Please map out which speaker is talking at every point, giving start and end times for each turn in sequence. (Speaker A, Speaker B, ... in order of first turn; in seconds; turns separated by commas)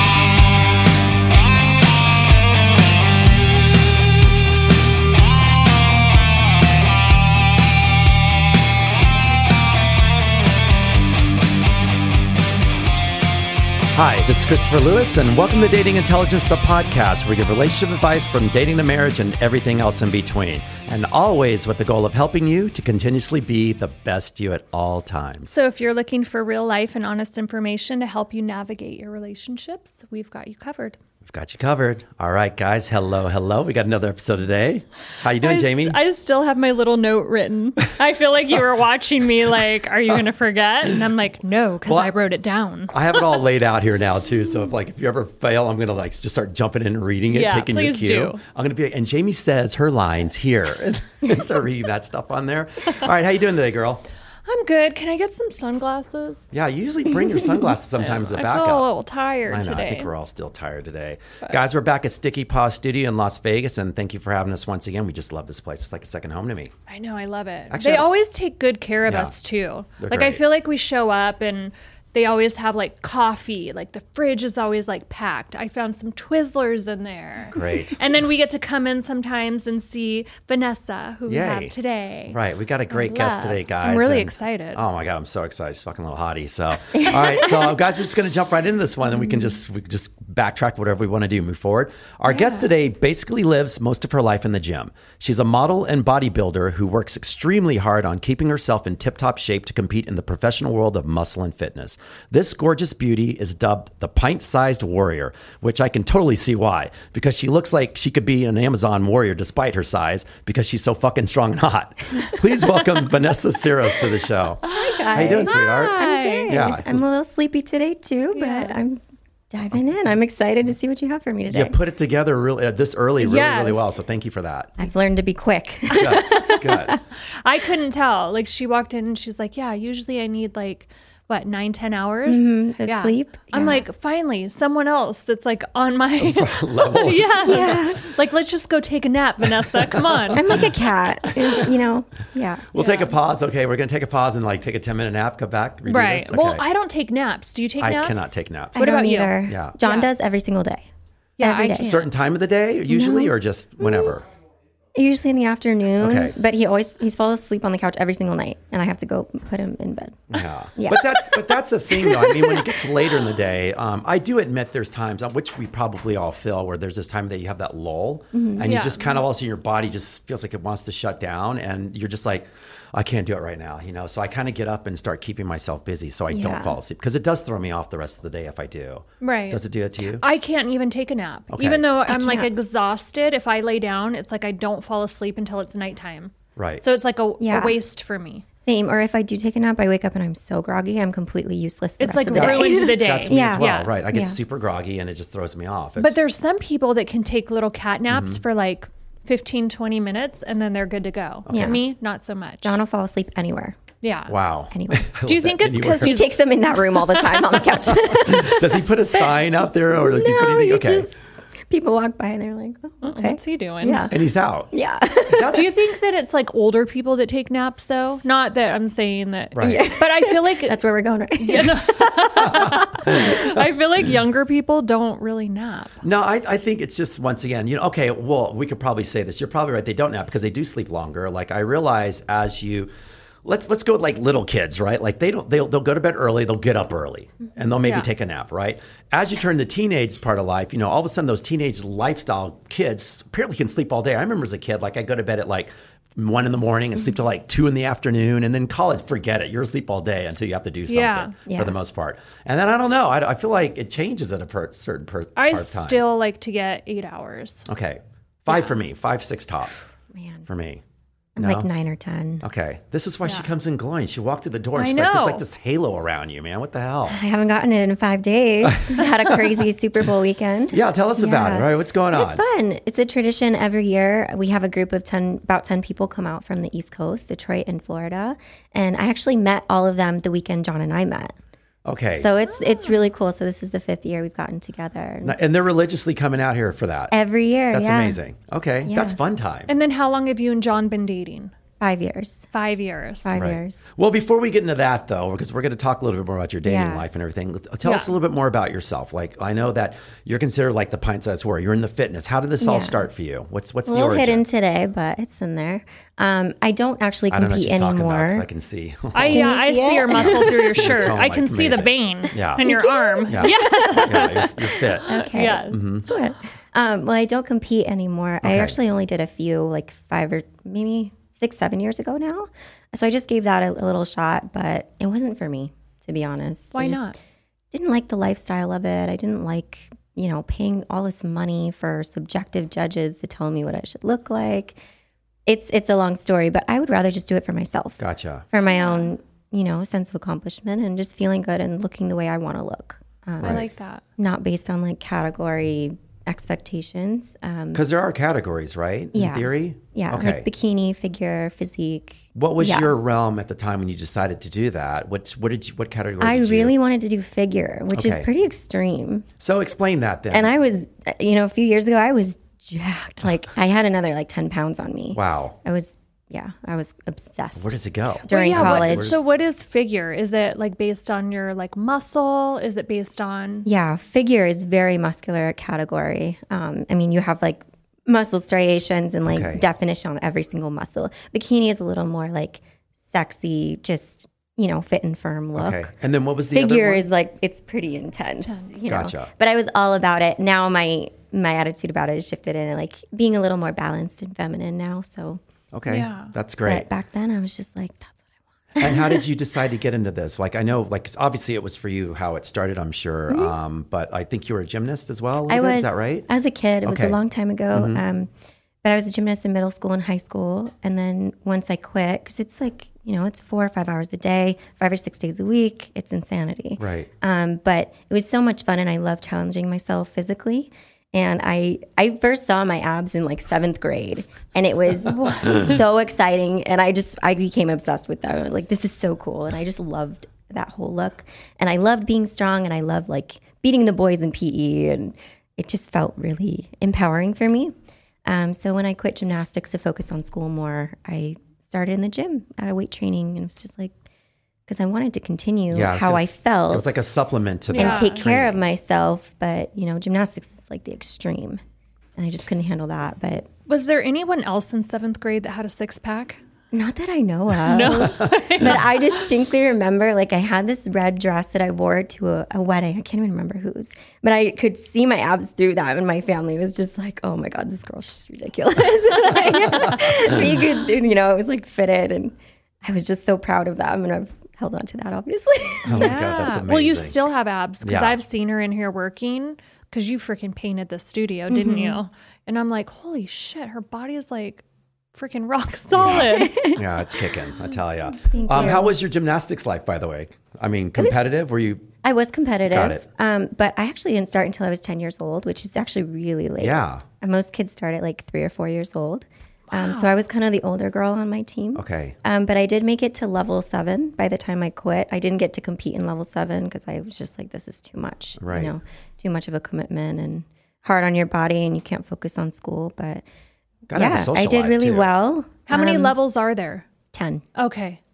Speaker A: 13.9-25.5, Speaker B: 25.5-31.0, Speaker A: 31.2-36.0, Speaker B: 35.4-43.3, Speaker A: 41.9-42.1, Speaker A: 42.9-54.0, Speaker B: 47.3-48.4, Speaker B: 54.5-56.5, Speaker A: 56.5-58.9, Speaker B: 58.0-60.1, Speaker A: 59.5-66.7, Speaker B: 66.9-82.4, Speaker A: 67.7-68.1, Speaker A: 69.1-69.3, Speaker A: 70.0-70.4, Speaker A: 77.5-78.0, Speaker A: 81.3-81.7, Speaker A: 82.3-114.6, Speaker B: 82.9-84.8, Speaker B: 92.3-92.7, Speaker B: 114.6-116.7, Speaker C: 114.7-121.8, Speaker A: 115.1-117.0, Speaker B: 118.3-118.8, Speaker A: 121.5-124.8, Speaker B: 123.2-123.9, Speaker C: 124.8-127.0, Speaker A: 125.9-127.0, Speaker B: 127.3-140.5, Speaker C: 132.3-133.8, Speaker A: 136.2-137.7, Speaker C: 137.4-138.1, Speaker A: 139.9-140.6, Speaker C: 140.3-142.7, Speaker A: 141.3-141.7, Speaker A: 142.7-146.6, Speaker B: 142.8-143.1, Speaker B: 145.9-150.1, Speaker A: 147.8-148.9, Speaker C: 148.8-150.9, Speaker A: 149.5-149.8, Speaker B: 151.4-152.1, Speaker C: 151.4-151.9, Speaker A: 151.8-154.2, Speaker C: 152.9-154.1, Speaker C: 154.9-162.8, Speaker A: 156.0-156.3, Speaker A: 160.3-180.2, Speaker C: 168.3-168.7, Speaker B: 168.6-169.2, Speaker C: 176.3-176.8, Speaker B: 179.2-179.6, Speaker B: 180.2-188.4, Speaker A: 181.5-181.9, Speaker C: 182.1-182.5, Speaker A: 186.6-186.8, Speaker C: 187.4-187.8, Speaker C: 188.6-194.4, Speaker B: 192.0-193.9, Speaker A: 192.3-196.2, Speaker B: 196.0-202.8, Speaker A: 198.1-198.4, Speaker A: 201.5-201.8, Speaker C: 201.5-201.8, Speaker C: 202.6-203.8, Speaker B: 204.0-204.4, Speaker A: 204.3-206.3, Speaker C: 204.7-205.1, Speaker B: 205.2-207.6, Speaker C: 206.0-208.8, Speaker A: 207.9-211.1, Speaker C: 209.9-211.1, Speaker C: 211.7-214.2, Speaker B: 213.0-214.1, Speaker A: 214.1-214.7, Speaker C: 214.7-215.6, Speaker A: 215.3-215.7, Speaker B: 215.5-220.8, Speaker A: 219.6-219.8, Speaker C: 219.6-222.6, Speaker B: 221.4-226.0, Speaker A: 222.4-223.6, Speaker A: 226.0-232.9, Speaker A: 233.4-256.0, Speaker B: 237.8-238.1, Speaker B: 250.9-251.3, Speaker C: 251.5-251.8, Speaker B: 255.4-257.6, Speaker A: 257.7-259.9, Speaker C: 260.1-260.4, Speaker A: 260.5-260.8, Speaker C: 261.4-262.4, Speaker A: 261.4-261.7, Speaker A: 262.4-267.2, Speaker B: 264.8-265.4, Speaker C: 267.1-281.4, Speaker A: 268.7-269.1, Speaker A: 270.7-272.4, Speaker A: 281.9-282.3, Speaker C: 282.1-285.4, Speaker A: 285.2-287.1, Speaker C: 287.1-288.2, Speaker A: 287.7-289.7, Speaker C: 288.9-289.2, Speaker B: 289.7-291.5, Speaker C: 291.8-292.5, Speaker B: 292.5-293.3, Speaker C: 293.2-293.8, Speaker A: 293.3-304.4, Speaker C: 296.6-297.1, Speaker B: 297.8-298.1, Speaker C: 302.6-303.1, Speaker C: 303.9-308.5, Speaker A: 307.3-309.5, Speaker B: 309.1-315.8, Speaker C: 309.3-311.0, Speaker A: 310.1-312.7, Speaker C: 312.6-313.6, Speaker A: 313.3-315.2, Speaker C: 315.1-327.1, Speaker A: 315.7-316.1, Speaker A: 318.4-318.8, Speaker B: 326.7-327.2, Speaker C: 327.7-334.8, Speaker C: 335.5-347.8, Speaker A: 338.0-338.4, Speaker B: 338.7-339.1, Speaker B: 343.4-344.0, Speaker A: 347.7-350.5, Speaker C: 349.1-353.0, Speaker A: 352.4-356.8, Speaker C: 356.2-359.3, Speaker A: 357.9-358.3, Speaker A: 359.4-360.5, Speaker C: 360.3-367.7, Speaker A: 365.1-365.6, Speaker A: 367.6-369.2, Speaker C: 368.3-369.2, Speaker B: 368.3-373.7, Speaker C: 373.6-385.9, Speaker A: 379.3-379.6, Speaker A: 385.6-387.1, Speaker C: 386.5-395.4, Speaker B: 388.4-388.8, Speaker A: 388.8-389.3, Speaker A: 395.7-396.9, Speaker B: 395.9-396.3, Speaker C: 396.6-398.2, Speaker C: 398.7-399.2, Speaker A: 398.8-406.3, Speaker C: 403.3-403.6, Speaker C: 405.5-408.3, Speaker A: 406.9-407.2, Speaker A: 407.7-408.0, Speaker C: 408.8-437.7, Speaker A: 416.8-417.1, Speaker B: 425.1-425.7, Speaker C: 438.2-443.9, Speaker C: 444.7-447.0, Speaker A: 445.7-448.6, Speaker B: 447.7-448.2, Speaker C: 447.7-451.6, Speaker C: 452.2-453.5, Speaker B: 453.7-456.4, Speaker C: 456.7-476.5, Speaker B: 457.7-458.8, Speaker B: 469.7-470.0, Speaker A: 475.9-477.3, Speaker B: 475.9-486.7, Speaker A: 477.8-478.2, Speaker C: 481.5-482.0, Speaker A: 486.0-491.9, Speaker C: 486.0-487.1, Speaker C: 488.1-489.0, Speaker C: 491.0-491.2, Speaker C: 492.0-513.2, Speaker A: 492.7-493.1, Speaker A: 496.6-497.0, Speaker B: 499.7-500.1, Speaker A: 501.8-502.2, Speaker A: 508.4-508.7, Speaker A: 513.9-515.1, Speaker C: 513.9-516.1, Speaker B: 515.7-516.9, Speaker C: 517.1-517.5, Speaker B: 517.6-518.0